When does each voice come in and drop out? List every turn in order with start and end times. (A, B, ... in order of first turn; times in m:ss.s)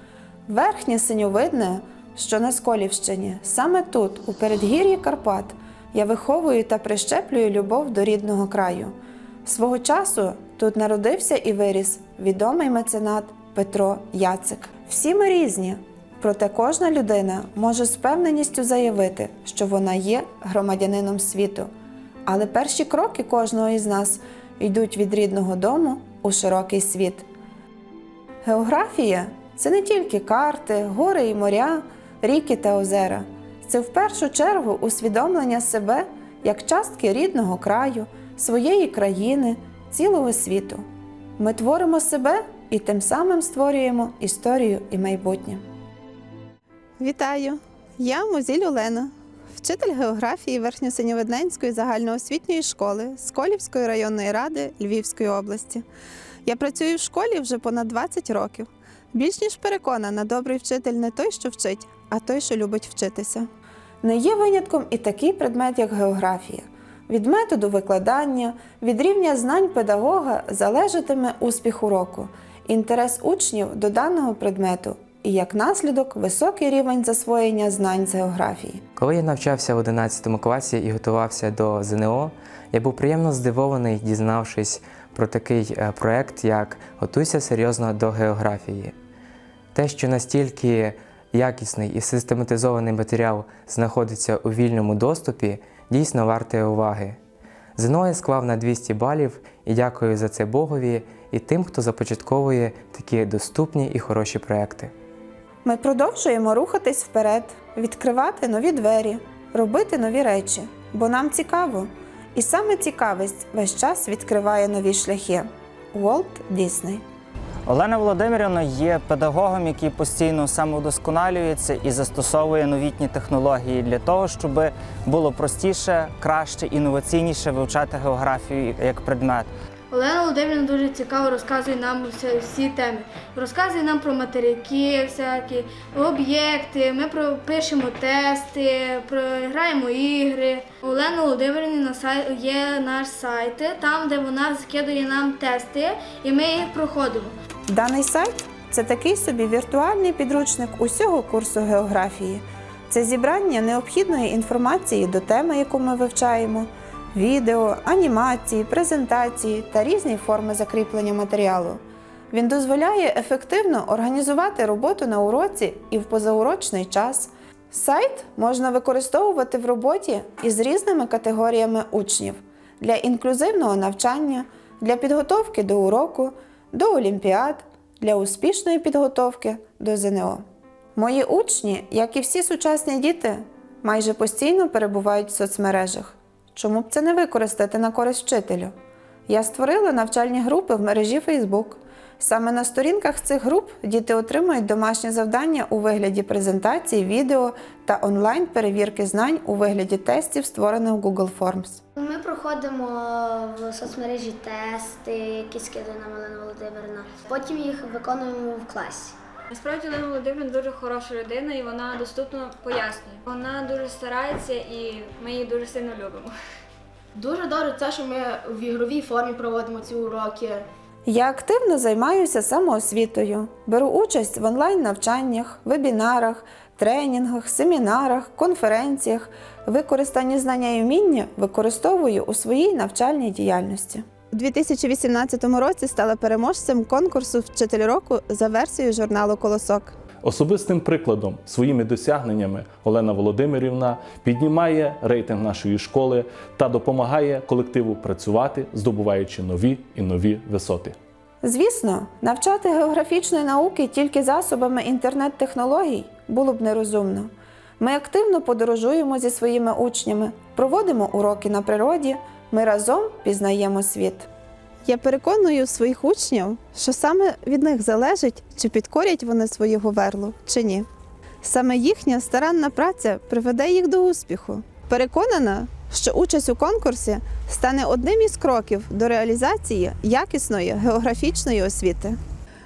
0:00.5-0:08.9 A
0:09.4-0:21.7 A
0:22.3-0:27.3 A
0:28.4-0:40.8 A
0:41.4-0:45.6 A
0:47.0-0:55.8 A
0:56.4-1:03.5 A
1:04.0-1:18.8 A
1:19.0-1:28.9 B
1:29.7-1:37.2 B
1:37.8-1:44.9 B
1:45.6-1:57.0 A
1:57.7-2:09.5 C
2:09.9-2:27.3 D
2:27.7-2:41.8 A
2:42.3-3:00.4 A
3:01.0-3:08.7 A
3:09.3-3:21.8 A
3:22.0-3:29.2 E
3:29.5-3:36.3 F
3:37.2-3:40.6 G
3:41.1-4:00.0 A
4:00.2-4:11.0 H
4:11.4-4:24.3 A
4:24.8-4:30.9 A
4:31.4-4:42.2 A